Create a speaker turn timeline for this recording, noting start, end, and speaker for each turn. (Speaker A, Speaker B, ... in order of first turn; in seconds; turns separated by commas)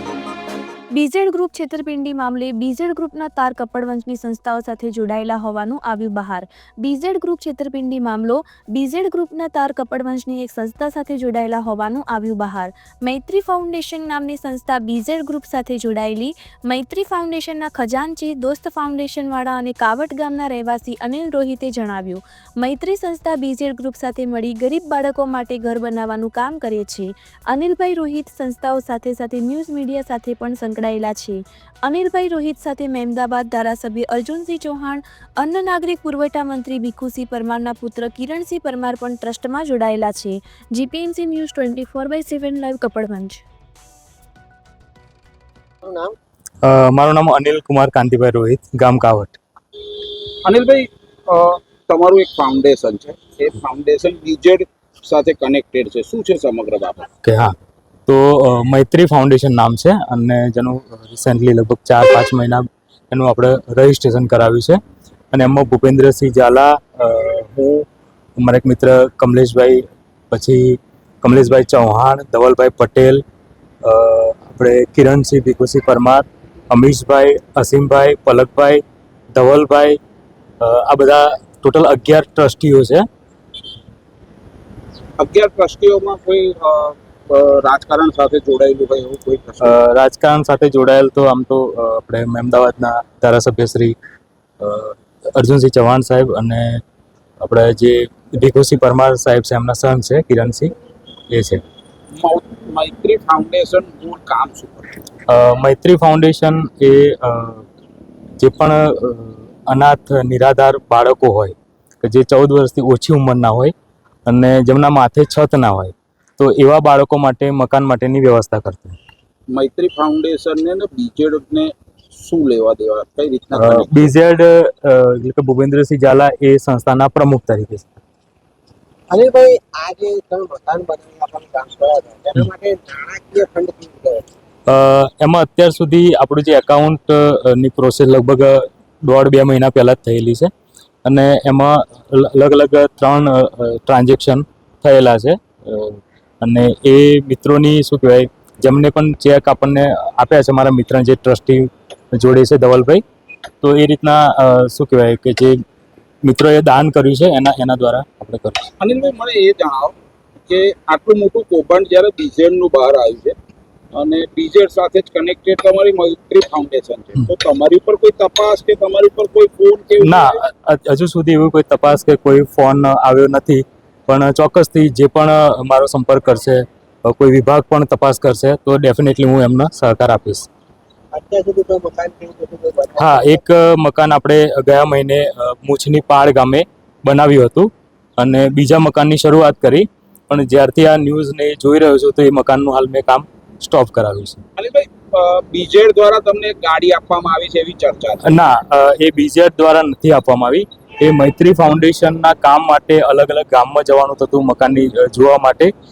Speaker A: 0.9-43.4, Speaker B: 45.8-46.1, Speaker C: 46.6-49.4, Speaker D: 50.4-57.1, Speaker C: 57.2-57.5, Speaker C: 58.1-64.8, Speaker C: 65.3-67.8, Speaker C: 68.4-73.2, Speaker C: 73.8-78.8, Speaker C: 79.3-80.0, Speaker C: 80.6-83.0, Speaker D: 85.2-89.8, Speaker C: 89.6-93.9, Speaker C: 94.6-96.8, Speaker C: 97.4-100.7, Speaker C: 101.3-101.6, Speaker D: 102.1-104.9, Speaker C: 105.3-107.6, Speaker C: 108.4-113.7, Speaker C: 114.3-119.0, Speaker D: 119.5-124.1, Speaker C: 123.5-128.0, Speaker B: 129.1-134.2, Speaker C: 134.7-140.5, Speaker C: 141.0-153.0, Speaker C: 153.6-155.6, Speaker C: 156.2-158.7, Speaker D: 158.8-159.9, Speaker D: 160.5-163.3, Speaker D: 163.9-170.4, Speaker C: 170.0-180.5, Speaker B: 181.1-183.4, Speaker C: 183.0-194.4, Speaker D: 194.6-198.3, Speaker C: 198.2-205.7